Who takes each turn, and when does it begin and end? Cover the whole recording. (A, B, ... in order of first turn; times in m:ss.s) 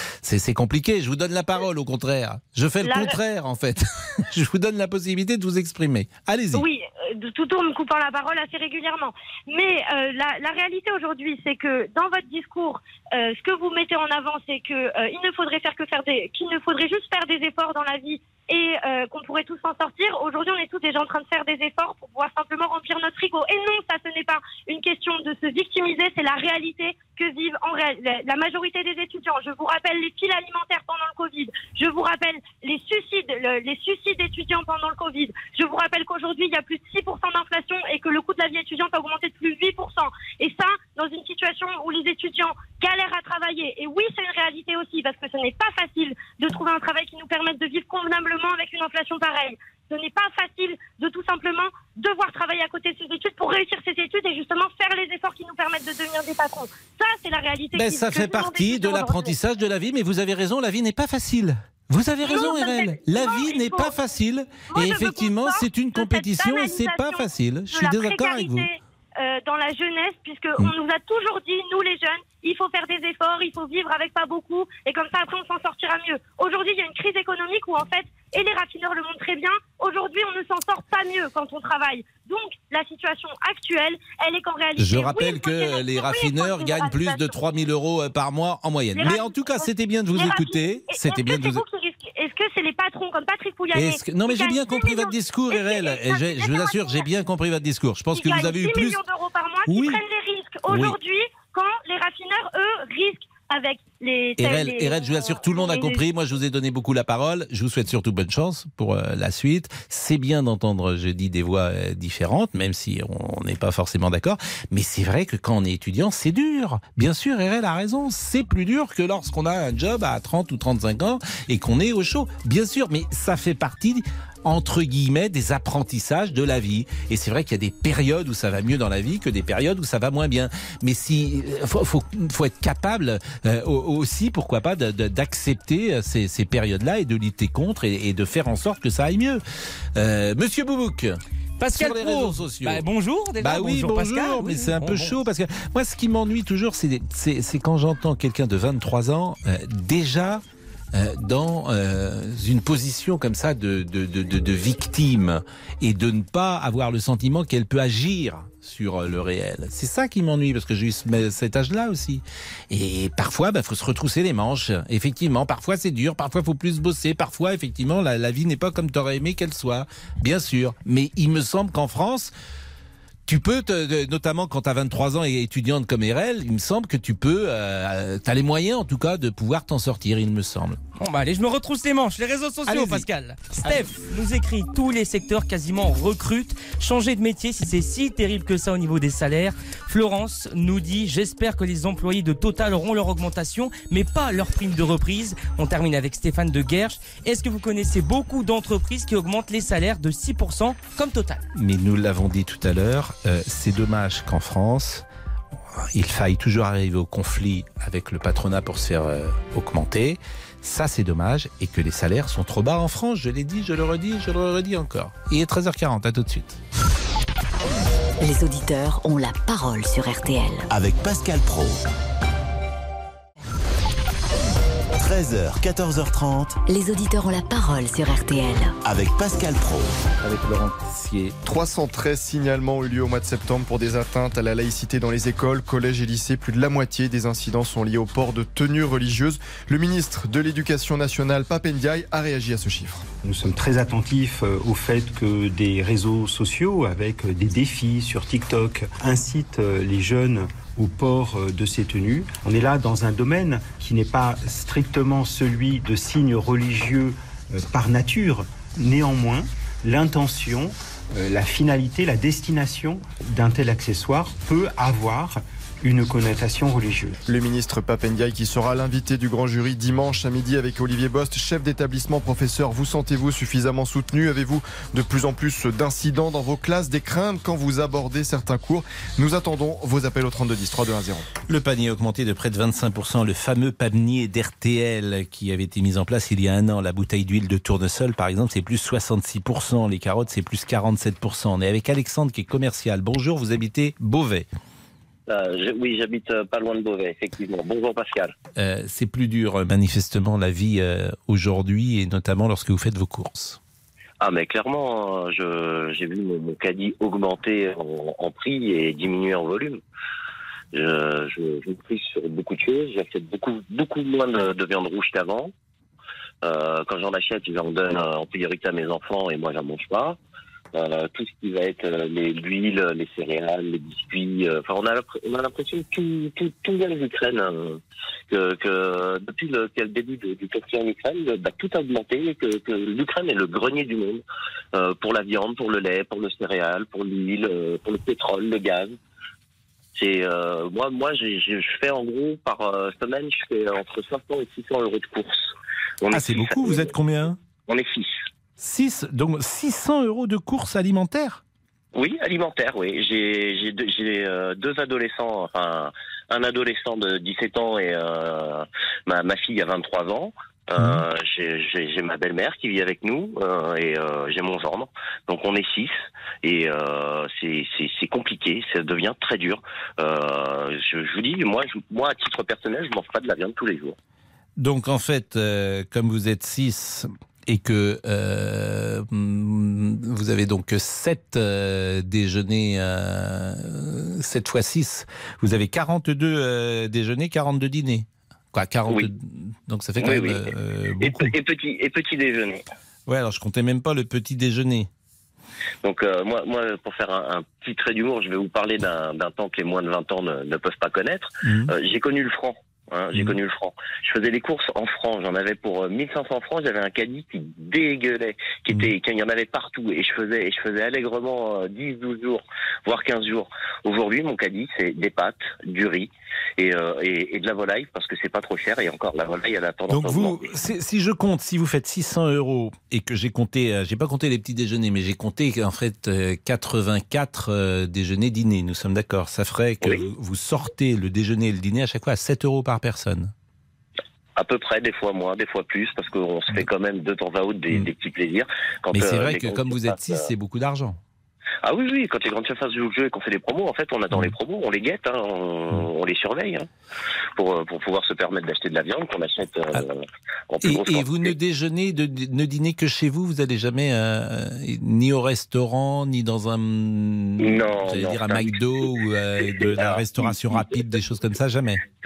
0:00.2-0:06.6 A
0:02.8-0:03.2 B
0:06.5-0:59.3 B
0:57.7-1:08.7 A
1:02.2-1:03.9 B
1:04.7-1:27.3 B
1:24.8-1:31.6 A
1:28.9-1:37.0 B
1:33.7-1:39.0 A
1:38.1-1:46.0 B
1:39.7-1:40.0 A
1:40.7-1:41.0 A
1:44.4-2:19.4 A
2:20.0-2:21.2 A
2:21.6-2:25.2 C
2:21.7-2:22.9 A
2:23.4-2:30.4 A
2:30.9-2:52.3 A
2:53.2-3:00.8 A
3:01.0-3:21.4 C
3:02.6-3:03.0 A
3:03.6-3:03.9 A
3:21.5-3:25.0 A
3:25.9-3:36.6 A
3:38.2-3:40.6 D
3:40.7-3:41.8 E
3:45.0-3:46.6 E
3:46.7-3:48.7 D
3:48.8-3:49.9 E
3:50.2-3:51.3 A
3:51.4-4:03.1 F
4:03.2-4:27.2 G
4:27.3-4:41.3 F
4:41.5-4:54.5 A
4:55.3-4:58.3 H
4:58.6-5:03.6 A
5:04.2-5:09.8 H
5:10.7-5:15.5 H
5:16.4-5:20.2 H
5:20.7-5:34.2 H
5:34.7-5:39.0 H
5:39.9-5:46.9 H
5:46.1-5:47.4 A
5:47.7-5:48.1 H
5:48.6-5:51.4 A
5:51.9-6:14.0 H
6:00.8-6:01.0 A
6:14.6-6:31.3 A
6:30.0-6:30.5 H
6:31.0-6:32.6 H
6:33.1-6:34.9 A
6:35.8-7:00.4 H
6:41.4-6:41.7 A
6:59.9-7:13.3 A
7:14.4-7:20.2 H
7:18.9-7:21.0 A
7:21.6-7:26.7 H
7:27.4-7:30.0 H
7:30.5-7:31.3 H
7:30.6-7:41.8 A
7:37.4-7:41.0 H